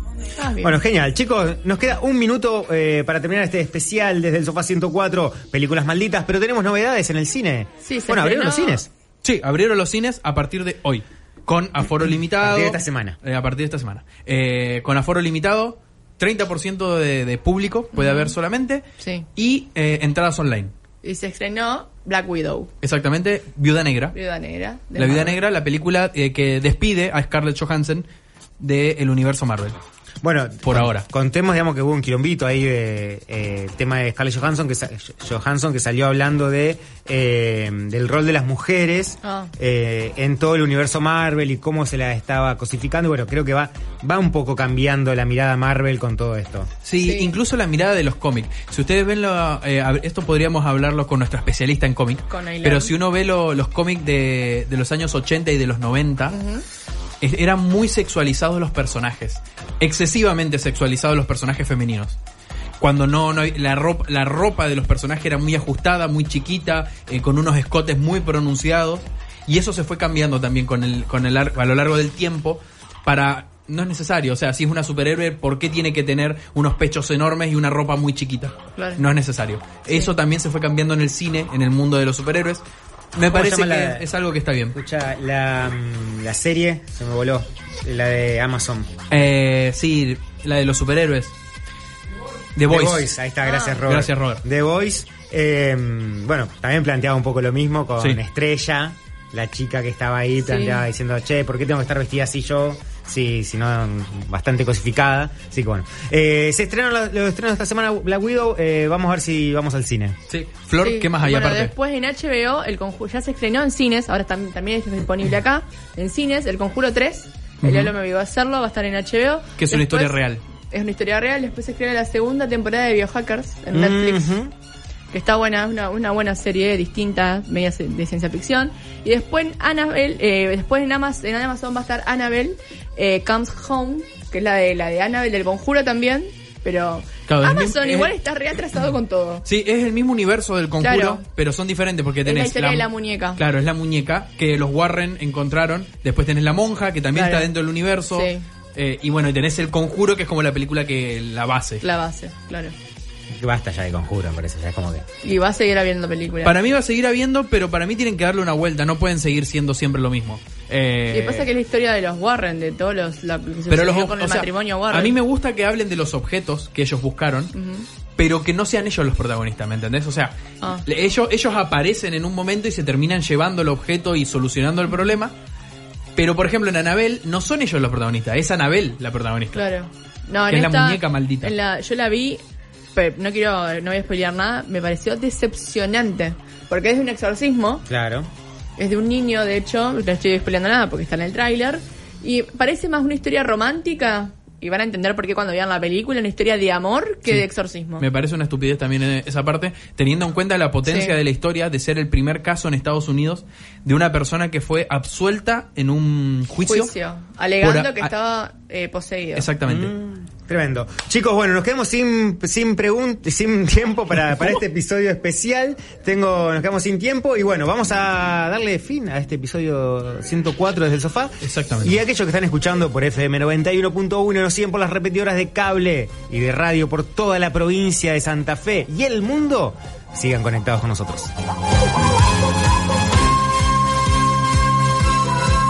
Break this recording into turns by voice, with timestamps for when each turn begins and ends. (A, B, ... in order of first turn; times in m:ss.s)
0:00.4-0:00.8 A
0:00.6-0:08.9 B
0:07.8-0:08.8 A
0:09.2-0:18.8 C
0:12.4-0:13.2 B
0:17.9-0:18.3 A
0:19.0-0:19.2 A
0:19.4-0:20.7 C
0:21.0-0:22.7 A
0:22.8-0:24.1 C
0:24.1-0:25.4 A
0:25.0-0:28.0 C
0:28.6-0:29.8 C
0:30.2-0:46.7 B
0:30.6-0:31.0 C
0:39.2-0:39.5 A
0:46.8-0:56.4 C
0:47.0-0:47.3 A
0:52.3-0:52.9 A
0:56.3-0:56.6 A
0:57.2-1:02.2 C
1:02.8-1:22.6 C
1:18.8-1:19.0 A
1:23.1-1:24.7 C
1:23.2-1:24.0 B
1:24.7-1:28.9 B
1:29.1-1:31.3 C
1:32.6-1:33.1 C
1:32.6-1:50.2 B
1:33.4-1:33.8 A
1:33.8-1:34.4 C
1:40.4-1:40.8 A
1:50.3-1:51.7 C
1:50.8-2:04.3 A
1:57.6-1:57.9 C
1:59.6-2:00.4 C
2:03.7-2:04.5 B
2:05.1-2:19.4 A
2:17.3-2:18.1 C
2:19.4-2:31.8 C
2:20.8-2:21.2 A
2:22.2-2:23.4 A
2:27.1-2:27.5 A
2:28.1-2:28.4 A
2:31.8-2:32.7 A
2:33.3-2:35.0 B
2:35.2-2:36.5 A
2:36.4-2:41.5 C
2:41.1-2:45.2 A
2:43.7-2:47.5 C
2:47.5-2:47.8 A
2:48.2-2:55.3 C
2:56.2-2:59.6 C
2:59.5-3:02.4 A
3:00.5-3:01.5 C
3:03.0-3:07.8 A
3:07.9-3:08.3 B
3:08.8-3:18.0 A
3:18.0-3:26.9 C
3:20.8-3:21.1 A
3:26.7-3:29.5 A
3:27.6-3:28.1 C
3:29.4-3:29.9 C
3:29.6-3:51.3 B
3:41.4-3:42.0 C